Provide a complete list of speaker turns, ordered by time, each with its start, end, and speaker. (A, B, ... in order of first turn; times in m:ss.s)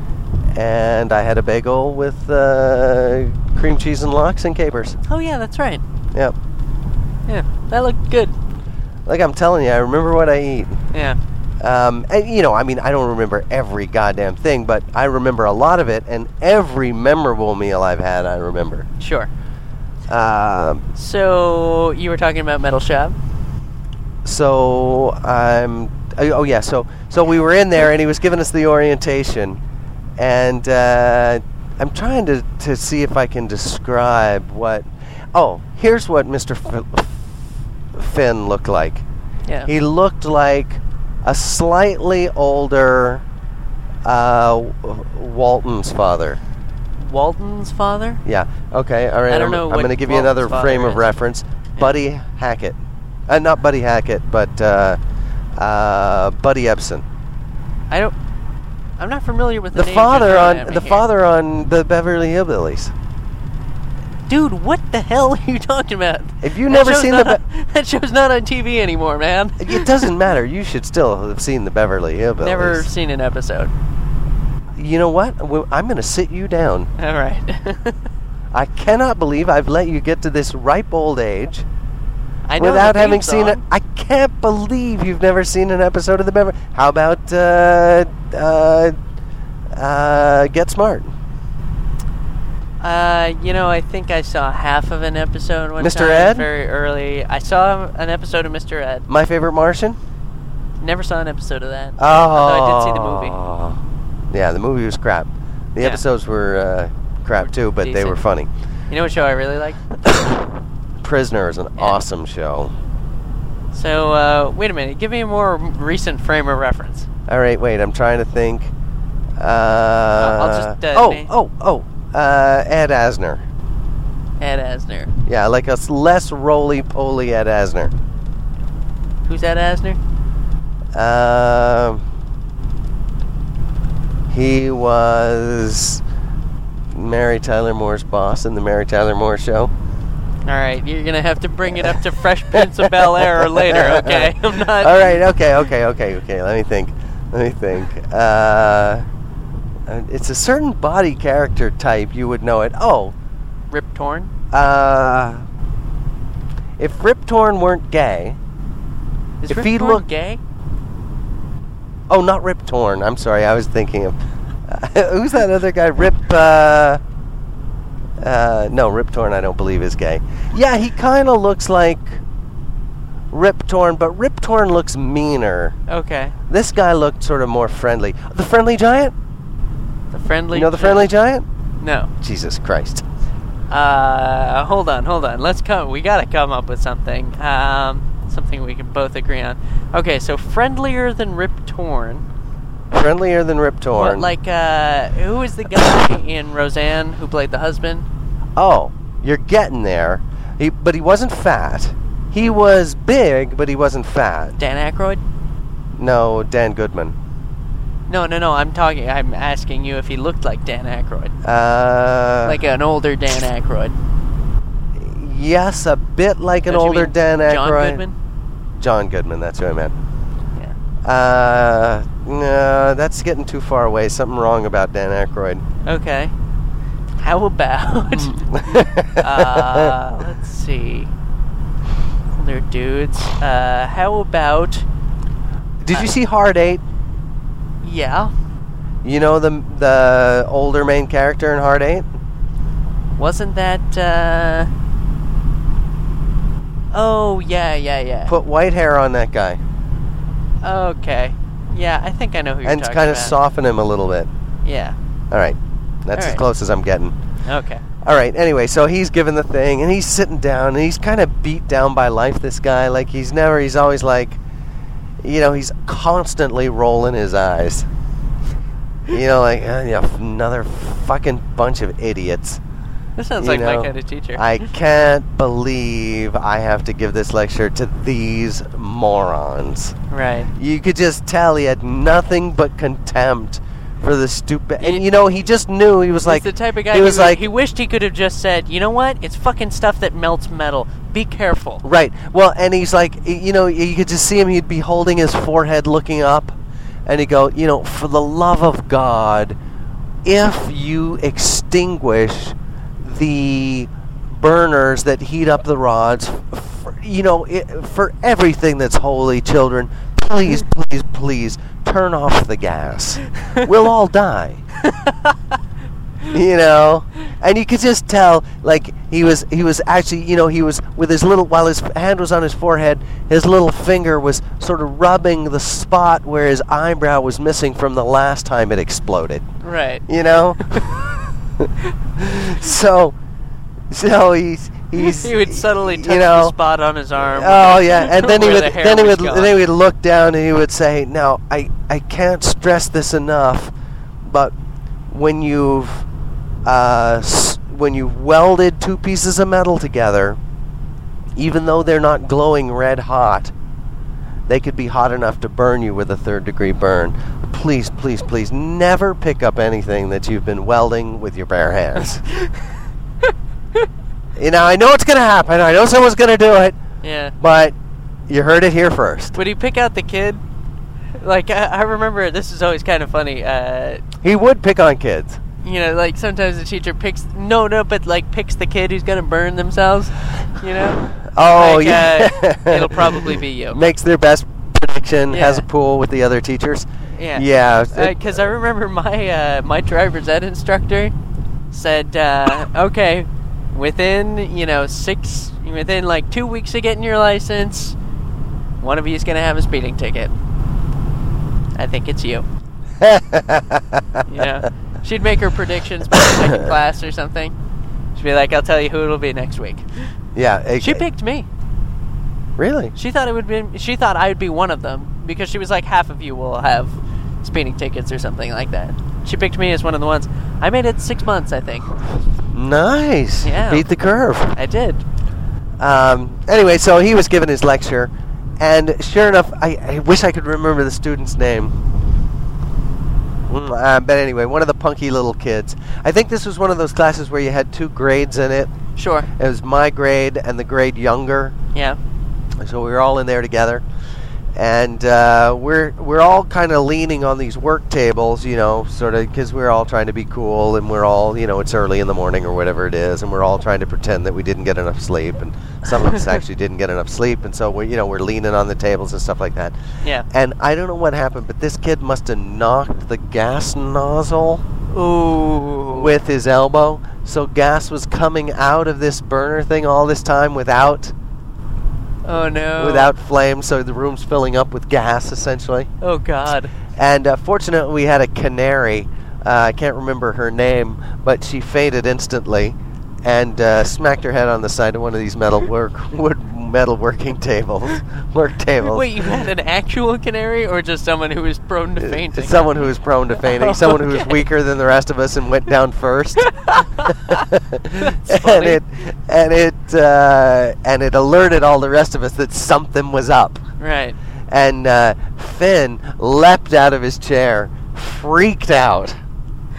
0:00.5-0:05.0 A
0:05.0-0:05.8 B
0:07.3-0:08.4 B
0:09.0-0:10.8 A
0:10.9-0:11.2 B
0:11.6-0:18.9 A
0:19.0-0:19.3 B
0:20.1-0:20.8 A
0:21.0-0:23.2 B
0:24.2-0:29.6 A
0:30.2-0:37.2 A
0:37.9-0:39.0 A
0:39.7-0:43.2 A
0:44.0-0:46.4 A
0:47.0-0:48.2 B
0:48.2-0:55.0 A
0:49.3-0:51.0 B
0:55.6-0:57.0 A
0:57.9-0:58.1 B
0:59.0-1:01.1 B
0:59.7-1:02.9 A
1:04.3-1:10.1 B
1:06.4-1:07.4 A
1:09.6-1:12.9 A
1:12.4-1:13.7 B
1:14.8-1:16.9 A
1:17.0-1:18.0 B
1:18.5-1:21.7 A
1:22.5-1:23.6 B
1:22.6-1:29.0 A
1:29.7-1:31.1 A
1:32.8-1:39.1 B
1:35.8-1:36.5 A
1:39.1-1:40.0 A
1:40.8-1:43.4 B
1:42.0-1:43.8 A
1:44.3-1:48.5 A
1:47.4-1:48.2 B
1:48.9-1:50.0 B
1:50.0-1:50.4 A
1:51.0-1:52.7 A
1:53.7-1:57.1 B
1:57.3-1:58.7 A
1:59.4-2:03.4 A
2:00.2-2:01.3 B
2:04.4-2:05.1 B
2:05.3-2:07.9 A
2:09.2-2:10.0 B
2:11.0-2:12.0 A
2:14.3-2:16.0 A
2:16.9-2:19.7 A
2:20.4-2:25.2 B
2:21.7-2:22.0 A
2:22.5-2:29.0 A
2:29.9-2:33.1 A
2:33.7-2:34.3 B
2:34.5-2:35.4 A
2:36.8-2:38.4 A
2:39.4-2:40.4 B
2:39.4-2:40.0 A
2:42.1-2:44.2 A
2:44.7-2:47.0 A
2:48.2-2:52.2 A
2:53.3-2:55.8 A
2:55.9-2:56.4 B
2:56.5-2:59.1 A
3:00.1-3:01.1 B
3:00.5-3:01.5 A
3:01.8-3:02.1 B
3:02.2-3:03.0 A
3:03.7-3:12.2 B
3:12.9-3:14.3 A
3:13.9-3:18.0 B
3:18.6-3:24.6 A
3:24.6-3:25.2 B
3:26.0-3:27.2 A
3:28.1-3:31.3 B
3:31.4-3:32.6 A
3:32.4-3:34.0 B
3:35.0-3:38.0 A
3:36.7-3:38.1 B
3:38.8-3:40.0 A
3:41.0-3:45.6 A
3:45.9-3:46.3 B
3:47.2-3:51.1 B
3:48.5-3:50.0 A
3:52.4-3:54.9 B
3:55.8-3:56.8 A
3:57.8-3:58.3 B
3:59.0-4:02.1 A
4:03.2-4:04.7 B
4:06.9-4:08.4 B
4:08.3-4:09.6 A
4:10.6-4:13.4 B
4:12.6-4:14.3 A
4:14.6-4:15.0 B
4:15.3-4:17.1 A
4:16.1-4:16.4 B
4:17.4-4:17.8 B
4:18.0-4:24.4 A
4:25.2-4:27.9 A
4:29.1-4:32.6 A
4:33.2-4:34.6 B
4:33.4-4:40.0 A
4:40.1-4:40.5 B
4:40.6-4:47.4 A
4:44.8-4:45.0 B
4:46.2-4:51.8 B
4:51.8-4:59.6 A
5:00.2-5:14.6 A
5:14.8-5:15.4 B
5:16.3-5:29.4 A
5:29.6-5:30.0 B
5:30.1-5:31.0 A
5:31.6-5:33.2 A
5:33.9-5:36.6 A
5:35.0-5:39.6 B
5:37.2-5:44.5 A
5:45.1-5:46.1 A
5:46.6-5:50.4 A
5:51.4-5:53.5 A
5:54.5-6:02.2 A
6:04.4-6:06.8 A
6:07.0-6:07.3 B
6:07.4-6:07.8 A
6:08.3-6:09.4 A
6:09.3-6:10.4 B
6:11.2-6:14.0 B
6:14.2-6:15.4 A
6:15.6-6:23.8 B
6:21.1-6:28.4 A
6:25.3-6:25.6 B
6:27.2-6:31.1 B
6:31.7-6:38.0 B
6:38.8-6:40.3 B
6:41.8-6:42.4 B
6:43.0-6:44.5 A
6:44.3-6:47.5 B
6:46.1-6:46.7 A
6:48.2-6:50.1 B
6:50.4-6:51.0 A
6:50.8-6:51.5 B
6:52.6-6:52.9 A
6:53.0-7:02.0 B
7:02.5-7:04.6 A
7:03.4-7:03.9 B
7:04.6-7:05.0 B
7:05.8-7:11.8 A
7:13.5-7:18.7 A
7:19.0-7:19.3 B
7:19.4-7:21.6 A
7:22.6-7:23.8 A
7:24.6-7:39.8 A
7:40.3-7:44.6 A
7:44.9-7:46.1 B
7:45.9-7:51.1 A
7:52.2-7:53.1 B
7:52.8-7:55.9 A
7:56.0-7:56.7 B
7:57.0-8:09.3 A
8:08.8-8:12.8 B
8:12.0-8:23.6 A
8:13.4-8:14.4 B
8:16.4-8:17.4 B
8:18.0-8:18.8 B
8:23.8-8:24.2 B
8:24.5-8:29.2 A